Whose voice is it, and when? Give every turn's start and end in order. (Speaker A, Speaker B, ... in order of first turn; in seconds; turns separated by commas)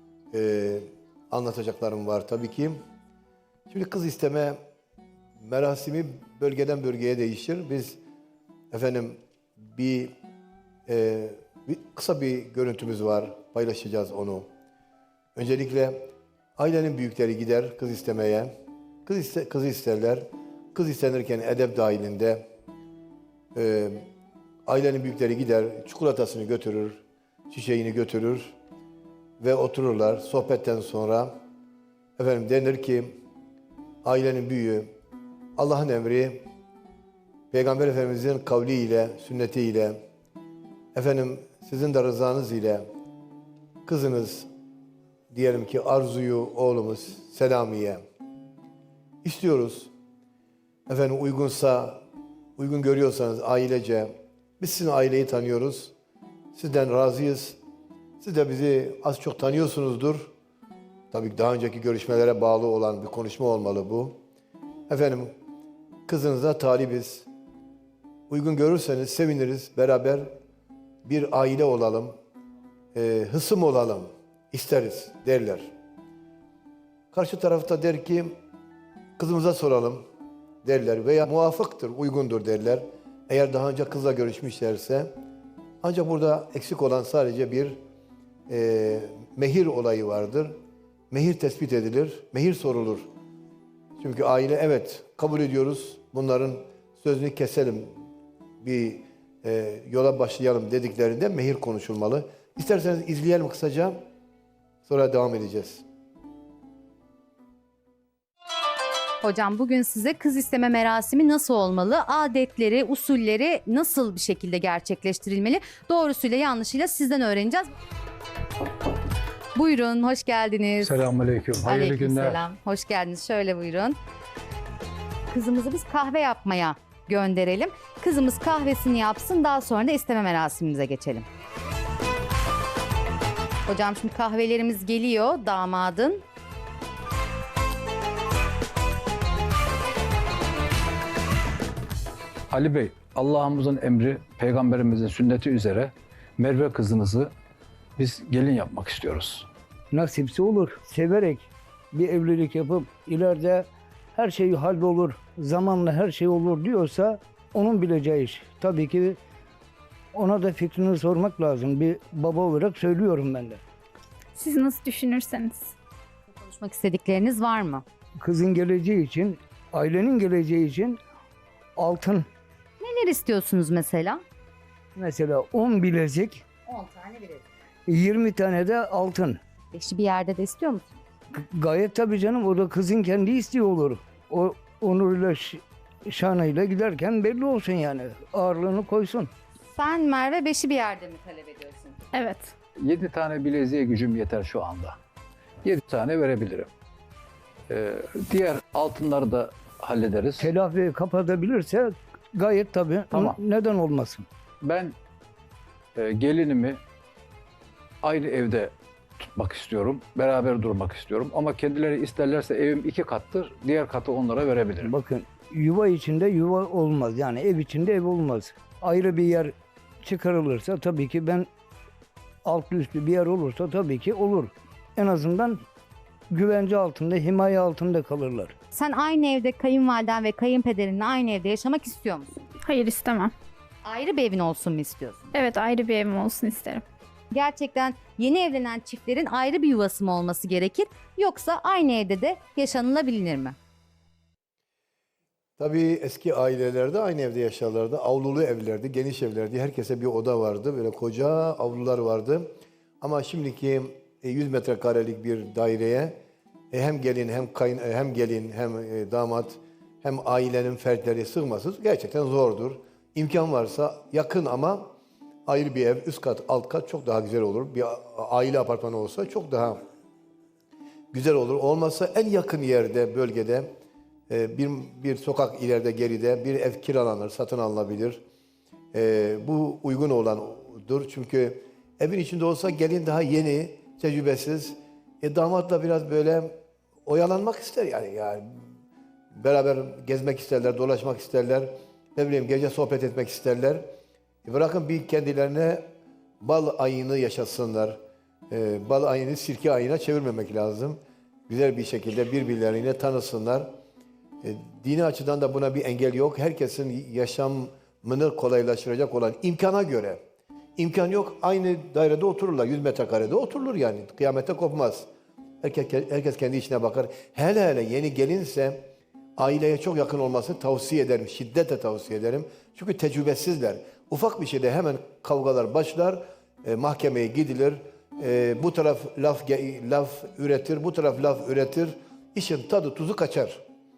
Speaker A: 0.3-2.8, Speaker A: 3.7-4.6, Speaker A: 5.4-8.0, Speaker A: 8.7-10.1, Speaker A: 10.9-14.4, Speaker A: 15.3-18.5, Speaker A: 19.1-22.4, Speaker A: 23.5-24.0, Speaker A: 24.7-28.5, Speaker A: 29.4-31.3, Speaker A: 32.2-33.1, Speaker A: 34.0-34.9, Speaker A: 35.6-36.4, Speaker A: 37.5-40.0, Speaker A: 40.9-42.8, Speaker A: 43.8-44.5, Speaker A: 45.3-48.0, Speaker A: 49.2-49.9, Speaker A: 50.9-52.0, Speaker A: 52.6-55.9, Speaker A: 56.5-57.6, Speaker A: 58.2-60.3, Speaker A: 61.1-64.1, Speaker A: 64.9-65.3, Speaker A: 66.1-67.3, Speaker A: 68.3-70.3, Speaker A: 71.0-72.1, Speaker A: 72.9-75.7, Speaker A: 77.1-78.3, Speaker A: 79.2-80.0, Speaker A: 80.6-85.1, Speaker A: 85.8-87.8, Speaker A: 88.5-90.5, Speaker A: 91.1-93.0, Speaker A: 94.0-97.9, Speaker A: 98.6-104.0, Speaker A: 104.8-105.8, Speaker B: 109.2-117.7, Speaker B: 119.5-121.1, Speaker C: 120.8-122.4, Speaker B: 121.6-124.0, Speaker B: 125.3-131.2, Speaker B: 133.7-136.2, Speaker C: 142.5-147.3, Speaker C: 148.0-149.5, Speaker D: 149.9-159.2, Speaker D: 160.1-163.6, Speaker E: 164.3-165.7, Speaker B: 166.3-167.8, Speaker D: 168.2-171.0, Speaker D: 171.8-172.2, Speaker B: 172.8-174.2, Speaker D: 174.9-176.4, Speaker B: 176.7-177.4, Speaker D: 177.8-179.4, Speaker B: 179.7-180.9, Speaker D: 181.3-189.3, Speaker B: 189.7-192.0, Speaker E: 192.1-192.5, Speaker C: 192.8-195.0, Speaker C: 195.6-196.7, Speaker C: 197.7-200.5, Speaker D: 200.4-204.2, Speaker C: 204.6-204.9, Speaker C: 205.9-206.8, Speaker C: 208.0-208.7, Speaker C: 209.2-214.9, Speaker D: 214.8-221.5, Speaker D: 222.4-225.6, Speaker D: 226.3-228.5, Speaker B: 228.7-232.4, Speaker E: 232.6-233.3, Speaker B: 233.8-235.3, Speaker E: 235.3-236.8, Speaker B: 237.3-243.5, Speaker A: 245.6-252.5, Speaker A: 253.0-256.2, Speaker A: 256.7-264.9, Speaker A: 265.5-269.8, Speaker A: 271.1-273.7, Speaker A: 274.3-278.2, Speaker A: 278.9-286.5, Speaker A: 287.1-288.5, Speaker A: 289.3-293.8, Speaker A: 294.4-295.8, Speaker A: 296.4-298.0, Speaker A: 298.5-301.0, Speaker A: 301.5-303.7, Speaker A: 304.4-310.2, Speaker A: 310.8-315.1, Speaker A: 315.6-318.8, Speaker A: 319.4-333.6